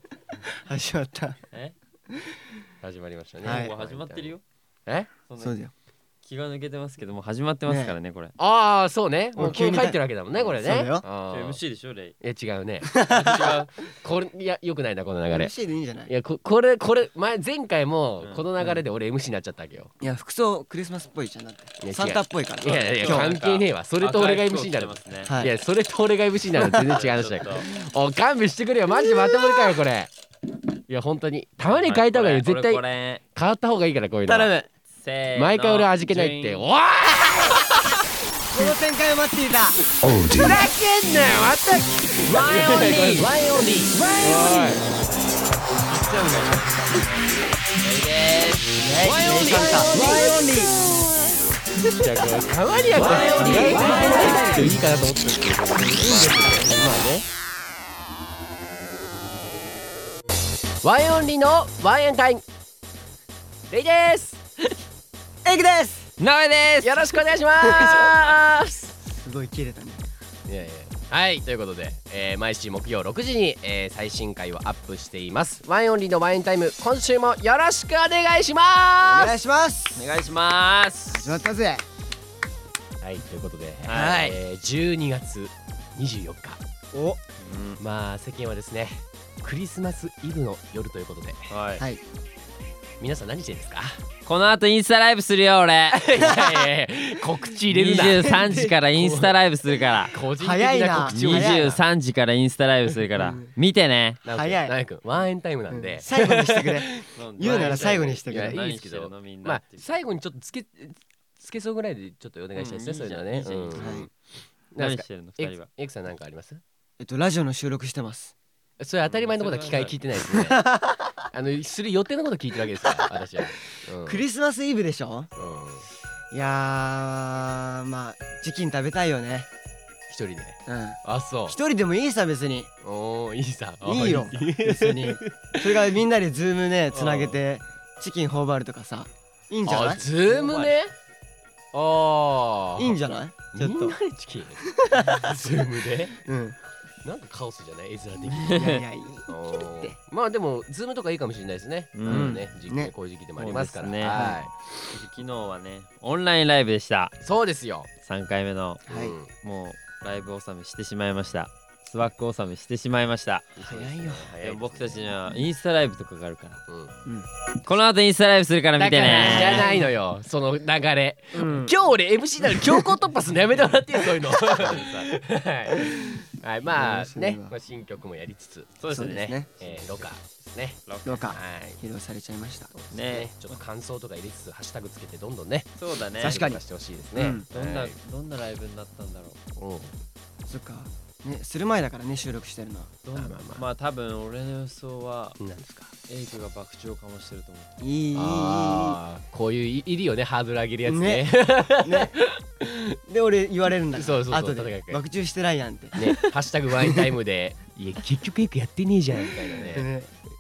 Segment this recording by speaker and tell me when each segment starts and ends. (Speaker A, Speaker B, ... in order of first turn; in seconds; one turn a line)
Speaker A: 0.4-1.4
Speaker A: 2.1-2.6
Speaker B: 2.8-4.3
Speaker A: 3.4-3.7
Speaker C: 3.4-4.4
Speaker B: 4.8-5.1
Speaker C: 5.3-5.6
Speaker A: 5.4-5.7
Speaker C: 6.2-8.3
Speaker A: 7.7-8.0
Speaker B: 8.4-11.6
Speaker A: 9.4-11.0
Speaker C: 11.3-12.2
Speaker B: 12.2-15.5
Speaker A: 12.8-13.6
Speaker C: 13.0-13.7
Speaker A: 15.3-16.1
Speaker B: 16.1-19.9
Speaker A: 20.0-23.3
Speaker B: 21.8-30.1
Speaker C: 22.9-25.3
Speaker A: 25.2-25.6
Speaker A: 26.6-26.8
Speaker C: 26.8-27.7
Speaker B: 30.9-34.5
Speaker C: 31.6-33.2
Speaker A: 34.3-34.7
Speaker C: 34.9-36.6
Speaker B: 35.4-38.7
Speaker A: 38.5-39.8
Speaker B: 40.0-44.8
Speaker A: 42.3-43.3
Speaker C: 42.3-43.3
Speaker A: 43.9-44.9
Speaker A: 45.5-47.1
Speaker C: 45.9-47.2
Speaker C: 47.8-50.4
Speaker A: 48.8-50.8
Speaker B: 49.1-50.6
Speaker B: 51.9-57.2
Speaker A: 53.0-54.8
Speaker C: 53.0-54.8
Speaker C: 55.4-56.5
Speaker A: 55.8-57.1
Speaker B: 60.8-62.4
Speaker B: 63.7-64.4
Speaker A: 65.4-66.1
Speaker C: 66.2-67.0
Speaker B: 66.8-68.9
Speaker A: 67.6-68.2
Speaker A: 69.0-70.0
Speaker B: 70.5-79.4
Speaker A: 79.0-80.1
Speaker C: 79.9-81.4
Speaker A: 81.1-81.8
Speaker B: 83.0-86.6
Speaker C: 83.8-84.3
Speaker A: 83.9-84.3
Speaker A: 86.9-87.2
Speaker C: 87.4-87.8
Speaker B: 87.8-91.5
Speaker C: 91.5-91.8
Speaker A: 91.8-92.0
Speaker B: 93.0-94.0
Speaker C: 94.2-96.0
Speaker B: 95.9-99.4
Speaker A: 96.2-96.7
Speaker C: 97.7-100.2
Speaker A: 98.2-98.7
Speaker B: 100.0-101.8
Speaker A: 100.4-101.8
Speaker C: 101.0-104.2
Speaker A: 103.1-103.5
Speaker B: 104.2-114.1
Speaker A: 104.3-104.7
Speaker A: 105.7-108.6
Speaker C: 107.1-109.8
Speaker C: 112.5-114.1
Speaker A: 113.7-114.1
Speaker B: 114.7-116.6
Speaker C: 114.8-115.7
Speaker A: 117.0-118.3
Speaker B: 118.8-120.7
Speaker C: 119.1-120.0
Speaker A: 120.3-121.2
Speaker B: 121.3-124.2
Speaker A: 122.8-125.4
Speaker B: 125.4-125.8
Speaker A: 126.3-129.5
Speaker B: 130.1-131.6
Speaker A: 130.7-132.7
Speaker B: 132.8-136.0
Speaker A: 133.8-140.0
Speaker B: 136.9-137.4
Speaker B: 139.7-140.9
Speaker C: 140.3-140.7
Speaker B: 141.7-143.0
Speaker A: 142.8-144.0
Speaker B: 143.5-146.2
Speaker A: 144.6-145.4
Speaker A: 146.2-146.6
Speaker B: 147.0-154.7
Speaker C: 148.3-148.8
Speaker A: 148.4-149.9
Speaker C: 151.9-152.3
Speaker A: 152.1-152.9
Speaker C: 153.4-154.3
Speaker C: 154.9-157.1
Speaker B: 157.2-157.9
Speaker C: 158.0-158.8
Speaker A: 158.9-159.2
Speaker B: 158.9-159.3
Speaker C: 159.3-166.6
Speaker A: 163.6-164.3
Speaker B: 163.6-165.0
Speaker B: 166.7-166.9
Speaker C: 167.6-169.7
Speaker A: 168.8-169.9
Speaker B: 168.8-181.8
Speaker A: 171.3-171.7
Speaker A: 172.4-172.9
Speaker A: 174.0-174.3
Speaker C: 174.5-175.1
Speaker A: 175.7-177.6
Speaker C: 178.8-179.7
Speaker A: 178.9-179.5
Speaker C: 180.8-181.3
Speaker A: 181.1-182.7
Speaker B: 182.7-187.9
Speaker C: 182.9-183.6
Speaker C: 185.8-186.4
Speaker A: 186.2-186.6
Speaker A: 187.1-187.4
Speaker C: 187.5-189.4
Speaker B: 189.6-189.9
Speaker A: 190.4-192.9
Speaker C: 193.0-195.4
Speaker B: 193.1-193.6
Speaker B: 195.4-195.9
Speaker C: 196.1-197.7
Speaker A: 197.8-199.0
Speaker B: 198.1-203.0
Speaker A: 200.8-202.1
Speaker A: 203.1-207.1
Speaker B: 203.9-205.0
Speaker B: 205.9-209.9
Speaker A: 209.2-210.1